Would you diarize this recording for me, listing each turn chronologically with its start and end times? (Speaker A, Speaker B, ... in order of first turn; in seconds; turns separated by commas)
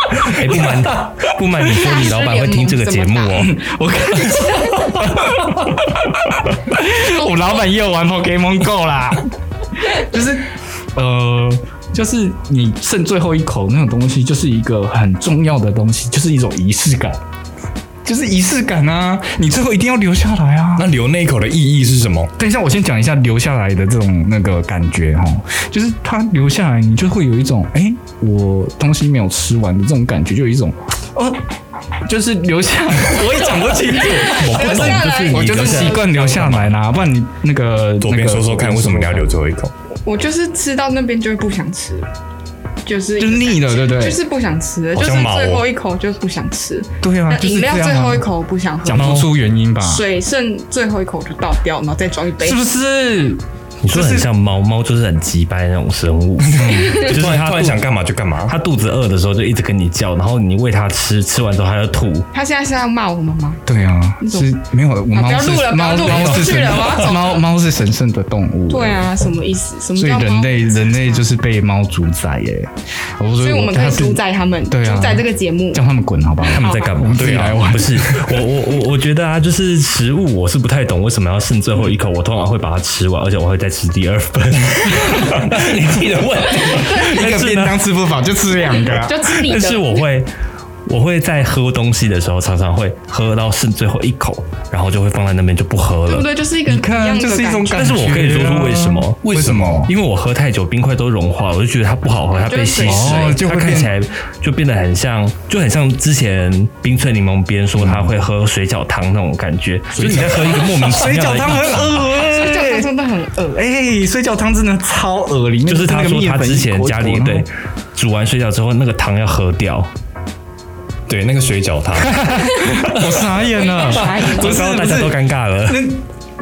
Speaker A: 0.1-0.8, Speaker B: 0.2-3.5, Speaker C: 1.6-3.5, Speaker A: 3.3-9.2, Speaker C: 4.5-4.8, Speaker C: 7.0-7.5, Speaker A: 9.8-17.2, Speaker A: 18.0-20.9, Speaker D: 20.8-22.3, Speaker A: 22.4-31.4, Speaker A: 32.0-39.3, Speaker C: 33.9-36.3, Speaker D: 34.0-35.1, Speaker B: 34.5-36.7, Speaker D: 36.2-36.5, Speaker D: 38.0-39.7, Speaker C: 40.0-42.1, Speaker C: 42.8-52.6, Speaker A: 43.2-44.2, Speaker D: 44.9-45.6, Speaker A: 47.0-48.3, Speaker A: 48.8-50.0, Speaker A: 52.4-54.3, Speaker B: 53.8-57.8, Speaker D: 56.4-58.5, Speaker A: 56.6-57.5, Speaker B: 58.5-62.3, Speaker C: 62.3-63.6, Speaker A: 63.6-69.3, Speaker C: 64.2-64.5, Speaker C: 65.1-67.4, Speaker C: 68.7-71.2, Speaker A: 70.0-78.5, Speaker C: 73.4-75.8, Speaker B: 76.5-87.8, Speaker C: 76.5-77.1, Speaker D: 77.2-77.6, Speaker A: 84.8-85.5, Speaker D: 85.6-86.3, Speaker A: 86.5-89.3, Speaker C: 86.6-87.3, Speaker C: 88.6-90.0, Speaker B: 89.4-90.3, Speaker B: 90.8-96.3, Speaker C: 96.1-98.0, Speaker A: 96.7-99.9, Speaker B: 97.7-112.1, Speaker D: 99.3-99.8, Speaker C: 102.3-103.4, Speaker A: 102.8-103.9, Speaker A: 107.8-108.1, Speaker A: 109.9-112.9, Speaker D: 110.0-110.5, Speaker C: 112.2-113.6, Speaker A: 113.5-117.5, Speaker B: 115.7-119.9, Speaker D: 121.1-122.4, Speaker A: 122.0-126.0, Speaker C: 123.3-124.7, Speaker B: 124.0-125.9